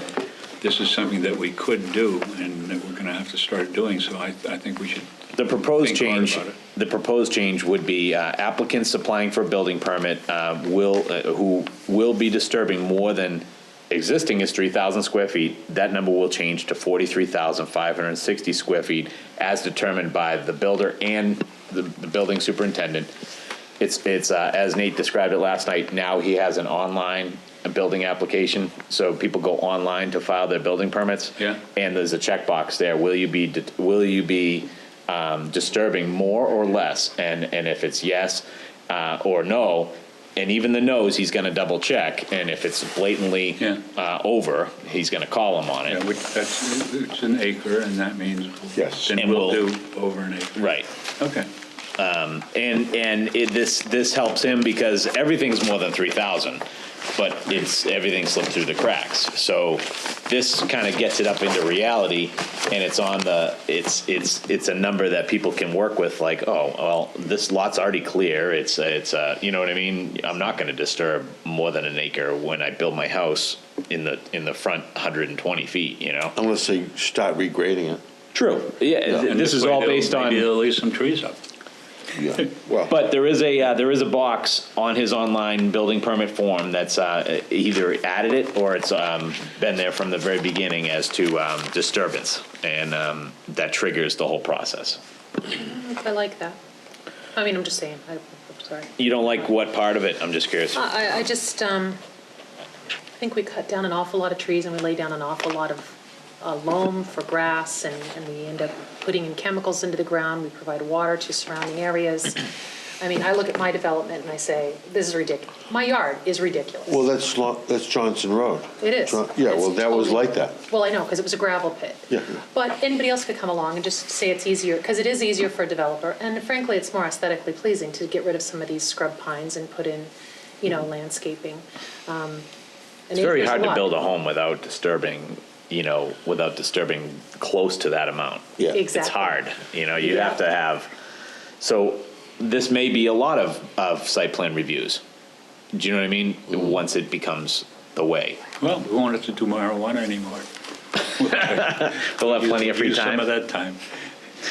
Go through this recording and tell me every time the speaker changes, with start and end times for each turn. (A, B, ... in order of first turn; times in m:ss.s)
0:00.6-0:05.1 A
0:05.3-0:23.1 B
0:05.7-0:06.6 A
0:23.8-0:46.0 B
0:45.8-0:51.5 A
0:48.8-0:49.2 C
0:49.1-0:49.8 B
0:50.6-0:50.9 B
0:52.0-0:56.6 B
0:57.2-1:16.4 B
1:16.4-1:18.0 C
1:18.3-1:20.5 B
1:19.2-1:21.4 A
1:22.1-1:22.9 C
1:22.8-1:35.0 B
1:35.5-1:36.6 D
1:37.3-1:39.4 D
1:39.0-1:40.8 B
1:40.8-1:42.0 D
1:43.2-1:52.4 D
1:53.0-1:57.1 D
1:56.9-2:00.6 C
1:58.8-2:10.1 D
2:02.1-2:02.4 C
2:10.6-2:12.5 D
2:13.1-2:13.9 D
2:13.2-2:20.9 B
2:18.7-2:19.4 D
2:20.0-2:20.4 D
2:21.6-2:25.0 B
2:25.7-2:28.4 B
2:28.6-2:30.5 A
2:31.1-2:33.8 A
2:31.2-2:33.3 B